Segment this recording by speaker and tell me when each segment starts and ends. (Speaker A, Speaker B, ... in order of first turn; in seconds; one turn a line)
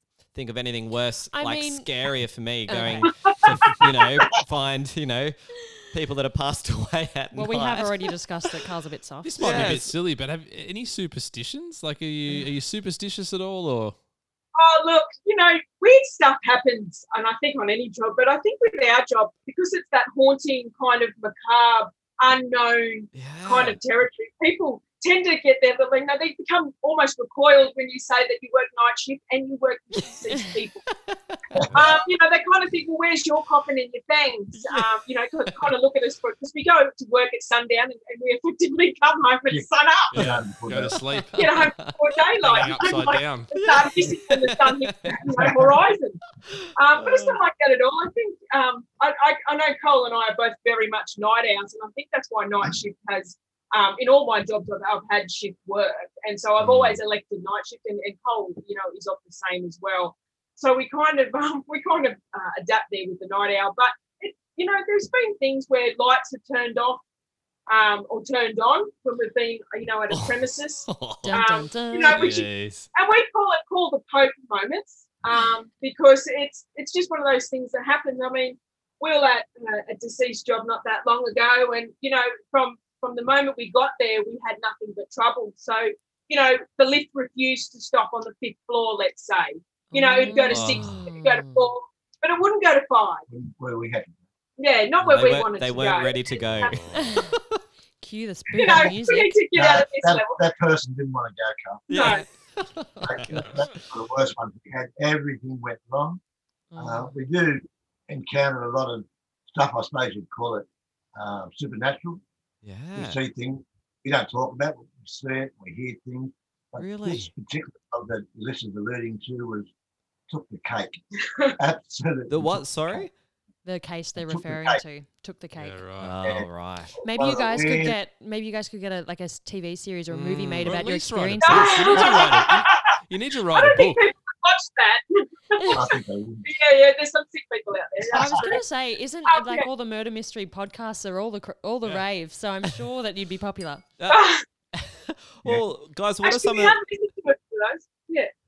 Speaker A: 0.3-8.0
Speaker B: 1.3-1.9
Speaker B: 2.7-3.1
Speaker C: 3.1-3.4
Speaker B: 7.3-9.8
Speaker D: 9.2-13.9
Speaker A: 9.4-9.9
Speaker C: 14.6-30.9
Speaker A: 23.1-23.8
Speaker A: 31.0-31.6
Speaker E: 31.5-31.8
Speaker C: 31.7-40.3
Speaker A: 34.5-35.7
Speaker E: 39.5-41.0
Speaker D: 40.1-41.4
Speaker A: 41.3-42.0
Speaker C: 41.4-46.2
Speaker D: 42.4-43.5
Speaker A: 42.6-45.3
Speaker A: 46.5-47.4
Speaker C: 46.8-67.0
Speaker C: 67.7-93.2
Speaker A: 70.1-71.4
Speaker B: 71.2-72.3
Speaker A: 72.1-72.9
Speaker B: 89.9-91.6
Speaker A: 90.5-91.1
Speaker E: 93.3-94.2
Speaker C: 94.6-96.9
Speaker A: 95.0-97.3
Speaker B: 96.8-97.4
Speaker B: 98.0-99.4
Speaker C: 98.6-100.4
Speaker E: 99.5-102.0
Speaker A: 101.9-103.6
Speaker C: 101.9-102.2
Speaker E: 103.0-106.2
Speaker B: 106.7-107.0
Speaker E: 106.8-112.2
Speaker A: 112.6-113.2
Speaker E: 112.9-119.7
Speaker A: 116.8-117.3
Speaker E: 120.3-121.0
Speaker E: 121.5-123.1
Speaker A: 122.3-123.1
Speaker B: 123.6-125.8
Speaker E: 124.2-124.8
Speaker D: 125.5-126.2
Speaker A: 126.0-127.0
Speaker E: 126.2-128.0
Speaker B: 127.0-132.3
Speaker D: 130.1-134.0
Speaker C: 131.4-132.9
Speaker C: 133.5-138.6
Speaker B: 135.6-135.8
Speaker E: 135.7-136.5
Speaker B: 138.1-143.9
Speaker E: 138.2-138.5
Speaker C: 139.2-139.7
Speaker C: 144.1-144.4
Speaker A: 144.8-146.8
Speaker C: 146.2-148.3